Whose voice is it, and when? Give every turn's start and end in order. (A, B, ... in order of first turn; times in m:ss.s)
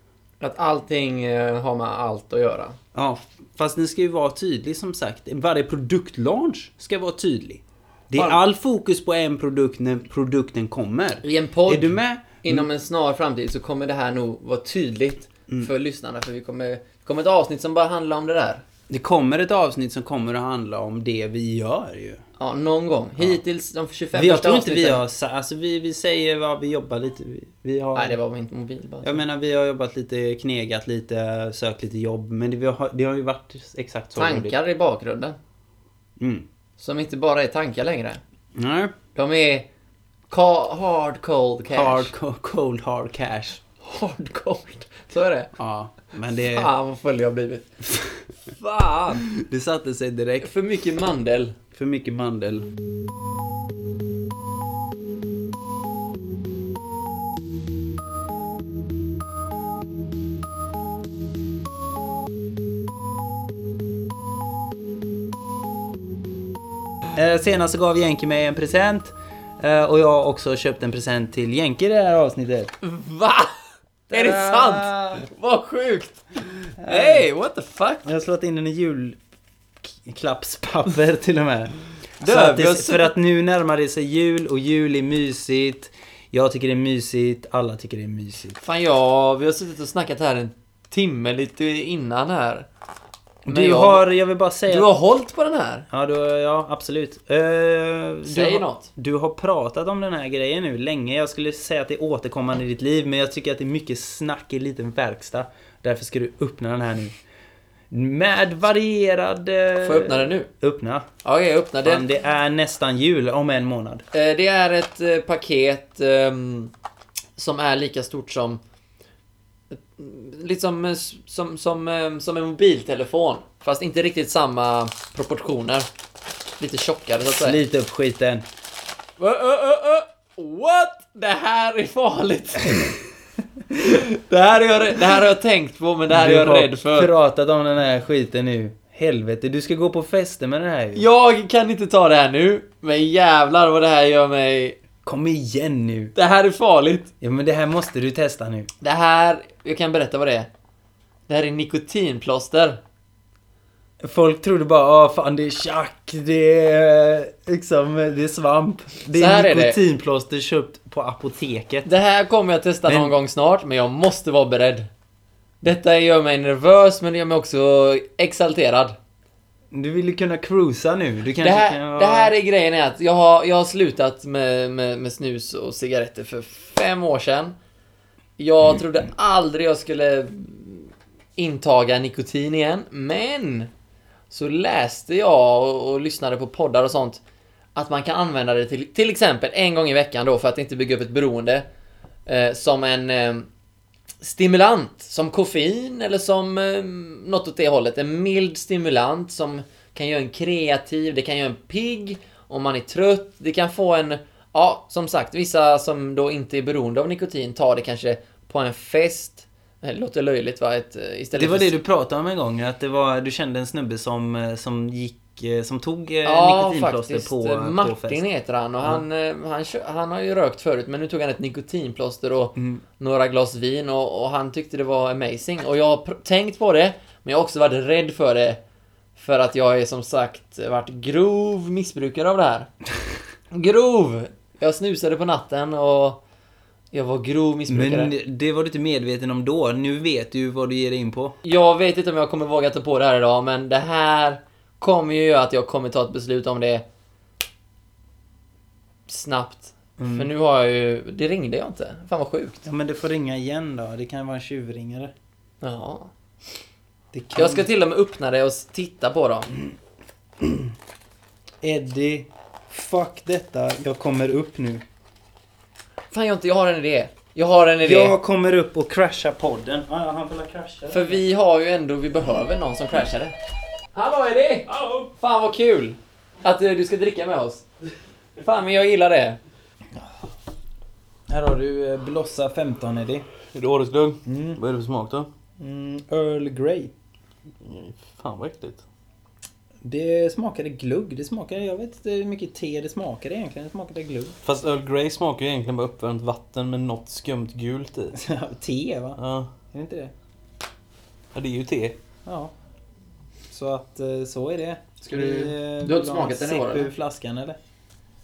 0:00.4-0:02.8 A
0:02.9-0:12.7 B
0:11.2-0:18.6 A
0:18.9-0:22.2 B
0:22.4-0:25.0 A
0:24.1-0:28.2 B
0:28.0-0:29.2 A
0:29.0-0:34.6 B
0:34.2-0:35.4 A
0:36.2-0:36.5 B
0:36.8-0:38.2 A
0:38.6-0:39.0 B
0:39.2-0:39.7 A
0:40.3-0:42.1 A
0:41.7-0:43.6 B
0:43.8-0:45.5 A
0:45.6-0:46.7 B
0:46.3-0:47.7 A
0:48.5-0:49.3 A
0:49.3-0:50.5 B
0:50.4-0:51.6 A
0:51.7-0:52.7 B
1:07.2-1:12.7 B
1:12.8-1:13.5 A
1:14.1-1:15.2 B
1:14.1-1:18.1 A
1:16.8-1:17.3 B
1:18.0-1:19.2 B
1:19.9-1:28.6 B
1:22.2-1:23.1 A
1:28.6-1:32.7 A
1:33.5-1:34.9 B
1:33.5-1:34.1 A
1:34.7-1:35.9 A
1:35.9-1:47.2 B
1:38.3-1:38.9 A
1:47.9-1:51.1 B
1:49.8-1:50.5 A
1:51.2-1:52.0 A
1:51.8-1:54.0 B
1:54.1-1:56.7 A
1:57.4-1:58.6 A
1:59.7-2:05.9 A
2:06.6-2:07.6 A
2:07.4-2:08.4 B
2:09.2-2:13.0 A
2:13.7-2:17.1 A
2:16.1-2:21.0 B
2:21.0-2:24.8 A
2:25.0-2:26.1 B
2:26.2-2:27.1 A
2:27.2-2:28.7 B
2:28.8-2:30.5 A
2:31.3-2:32.8 A
2:34.0-2:41.9 B
2:39.1-2:39.8 A
2:41.8-2:44.9 A
2:42.9-2:43.1 B
2:45.6-2:49.0 A
2:49.7-2:52.3 B
2:51.4-2:57.6 A
2:58.4-3:03.7 A
3:04.3-3:07.2 A
3:07.8-3:11.7 A
3:12.3-3:13.5 A
3:14.2-3:31.7 A
3:31.4-3:38.2 B
3:36.2-3:48.6 A
3:42.6-3:42.8 B
3:49.2-3:52.7 A
3:53.5-3:56.2 A
3:56.9-3:58.1 A
3:57.7-4:01.4 B
4:01.4-4:06.8 A
4:09.1-4:12.6 A
4:10.0-4:10.3 B
4:12.6-4:15.1 B
4:15.6-4:16.1 A
4:17.1-4:17.6 B
4:17.4-4:19.5 A
4:21.6-4:24.8 B
4:26.1-4:28.2 A
4:27.8-4:31.2 B
4:30.9-4:33.4 A
4:33.9-4:37.6 A
4:34.7-4:35.1 C
4:38.4-4:39.4 A
4:41.3-4:43.3 B
4:43.5-4:45.3 C
4:44.3-4:44.6 B
4:45.6-4:46.9 B
4:47.6-4:48.8 C
4:49.8-4:54.4 B
4:54.4-4:58.1 C
4:58.1-4:59.2 B
4:59.2-4:59.5 C
4:59.7-5:00.1 B
5:01.3-5:02.0 C
5:02.3-5:02.5 B
5:03.5-5:07.6 B
5:05.0-5:06.9 A